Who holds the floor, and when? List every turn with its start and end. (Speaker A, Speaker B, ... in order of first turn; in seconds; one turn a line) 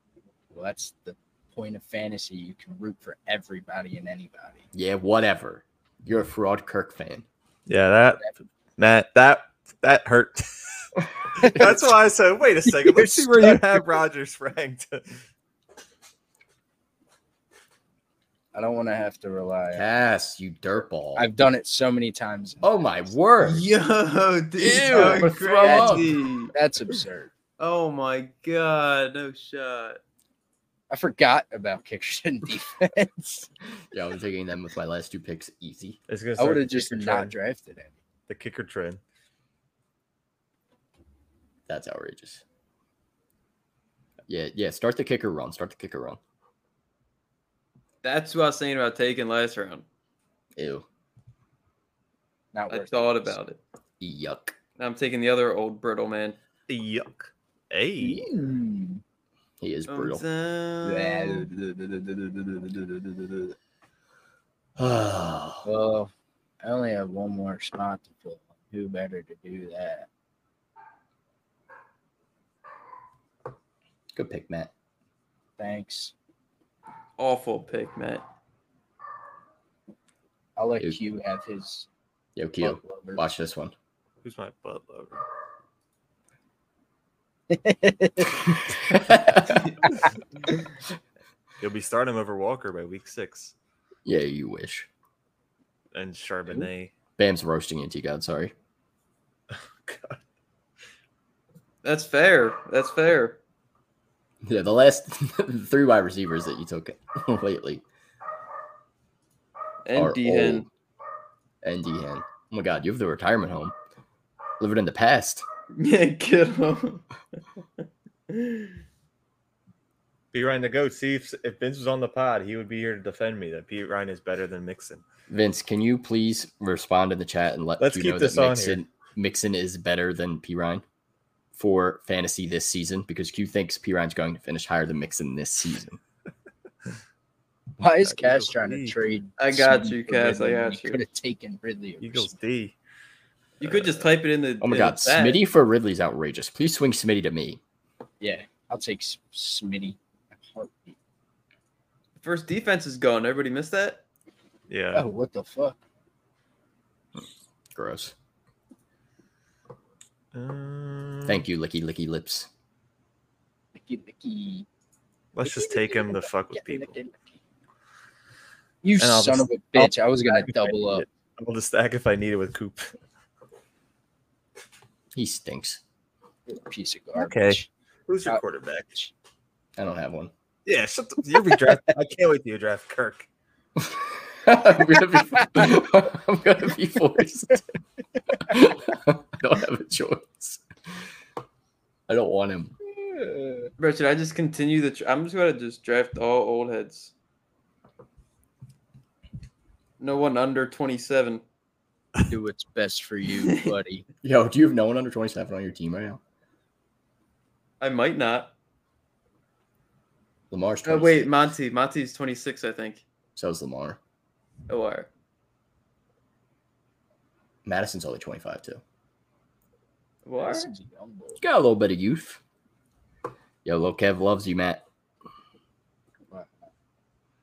Speaker A: 0.5-4.7
Speaker B: 4.7-7.2
Speaker C: 7.7-15.2
Speaker A: 11.4-11.9
Speaker A: 12.7-13.8
Speaker A: 18.5-19.9
Speaker B: 19.7-21.3
Speaker A: 21.1-22.8
Speaker B: 22.6-23.6
Speaker D: 23.4-26.5
Speaker B: 24.6-26.1
Speaker A: 24.6-27.3
Speaker D: 27.6-30.0
Speaker A: 30.9-33.5
Speaker B: 33.9-36.0
Speaker C: 36.1-37.3
Speaker A: 36.4-37.9
Speaker C: 38.3-39.0
Speaker B: 41.7-42.4
Speaker B: 44.3-46.2
Speaker D: 48.0-49.8
Speaker B: 50.5-50.8
Speaker A: 52.5-53.4
Speaker D: 52.7-53.6
Speaker B: 54.0-54.5
Speaker D: 54.8-56.4
Speaker C: 56.7-58.3
Speaker A: 58.0-59.0
Speaker B: 59.6-60.2
Speaker D: 59.9-61.5
Speaker A: 60.8-63.5
Speaker B: 64.8-65.7
Speaker A: 65.6-66.1
Speaker A: 66.6-70.1
Speaker B: 74.1-74.7
Speaker A: 75.6-76.1
Speaker D: 77.2-78.2
Speaker A: 80.5-81.9
Speaker B: 82.3-83.7
Speaker A: 82.6-83.3
Speaker C: 84.2-85.2
Speaker A: 87.5-88.5
Speaker B: 88.7-89.6
Speaker A: 89.8-90.1
Speaker C: 91.6-93.5
Speaker B: 94.0-94.9
Speaker C: 95.9-96.9
Speaker B: 97.2-98.5
Speaker C: 99.5-100.2
Speaker D: 101.8-103.4
Speaker B: 104.4-107.8
Speaker D: 109.8-110.7
Speaker B: 109.9-110.7
Speaker B: 111.6-113.7
Speaker B: 114.6-115.4
Speaker D: 115.7-117.0
Speaker D: 118.3-118.8
Speaker C: 120.3-125.0
Speaker B: 125.3-130.8
Speaker C: 127.8-128.8
Speaker B: 131.5-136.0
Speaker A: 137.8-142.3
Speaker C: 138.0-138.9
Speaker D: 139.4-141.0
Speaker C: 142.0-142.8
Speaker C: 143.6-143.9
Speaker D: 143.6-145.4
Speaker B: 144.6-147.6
Speaker A: 148.2-150.9
Speaker D: 152.2-154.0
Speaker C: 154.7-155.1
Speaker A: 154.9-155.8
Speaker B: 157.2-158.1
Speaker C: 160.3-161.4
Speaker B: 161.2-162.5
Speaker A: 163.7-164.7
Speaker C: 165.3-166.9
Speaker A: 165.4-167.4
Speaker A: 168.8-171.0
Speaker C: 169.0-172.9
Speaker B: 175.1-175.8
Speaker A: 176.5-177.7
Speaker C: 177.2-178.9
Speaker B: 179.8-180.3
Speaker C: 180.7-183.3
Speaker B: 183.8-187.6
Speaker A: 185.4-185.7
Speaker B: 188.4-190.6
Speaker B: 192.1-192.7
Speaker A: 192.9-193.7
Speaker D: 193.8-197.1
Speaker D: 200.0-201.4
Speaker A: 202.3-204.1
Speaker B: 204.2-206.2
Speaker D: 207.8-208.5
Speaker B: 210.5-211.4
Speaker D: 210.8-213.0
Speaker B: 213.3-214.0
Speaker D: 214.7-215.1
Speaker B: 217.6-218.8
Speaker D: 220.2-220.7
Speaker A: 220.4-221.4
Speaker B: 221.4-222.4
Speaker B: 223.6-224.8